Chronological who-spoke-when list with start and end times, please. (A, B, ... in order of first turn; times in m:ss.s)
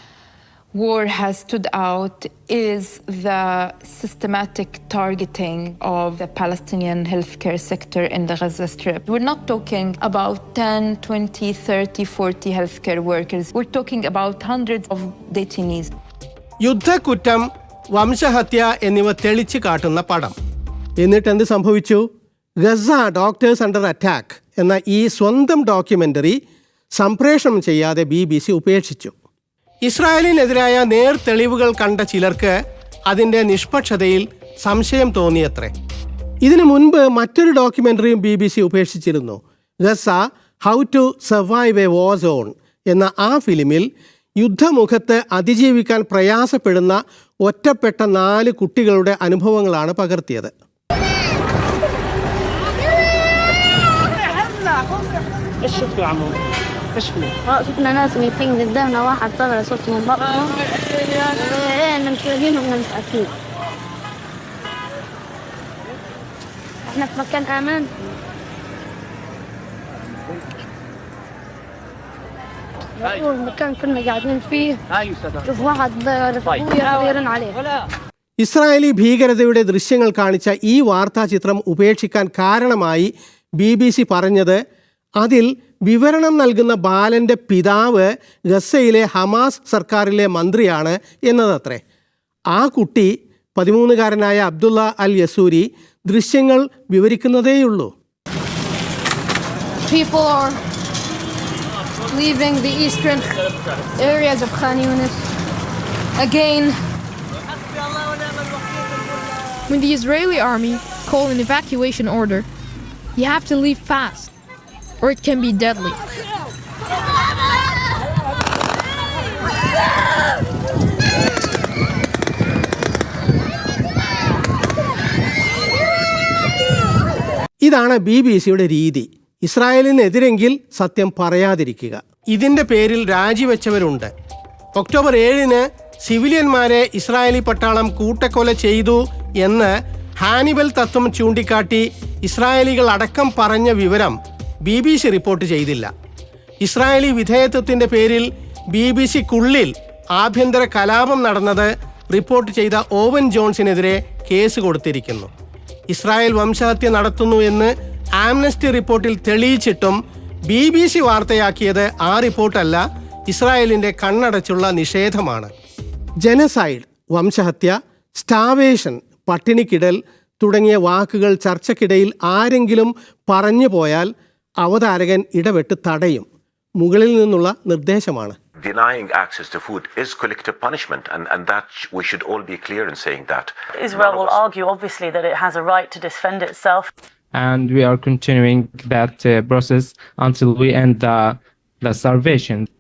0:00.7-0:15.9 A
0:16.6-0:20.3 B
0:21.0-0:22.1 B
0:22.6-0:26.4 B
0:27.0-0:29.1 B
0:29.8-0:32.6 B
0:33.1-0:35.7 B
0:36.4-0:43.9 B
0:44.4-0:50.5 B
0:57.5-1:00.5 C
1:01.6-1:03.3 C
1:06.9-1:07.9 C
1:13.0-1:14.8 C
1:15.4-1:17.5 C
1:18.4-1:24.6 B
1:25.2-1:31.8 B
1:32.5-1:37.9 B
1:49.7-1:52.4 D
1:53.2-1:54.3 D
1:55.0-1:56.0 D
2:07.6-2:14.1 B
2:14.8-2:25.9 B
2:26.6-2:35.3 B
2:35.9-2:40.0 B
2:40.5-2:45.5 B
2:46.2-2:54.1 B
2:54.6-2:56.3 B
2:56.8-2:58.4 B
2:58.6-3:04.4 E
3:03.8-3:06.9 F
3:07.4-3:12.7 G
3:07.5-3:08.3 D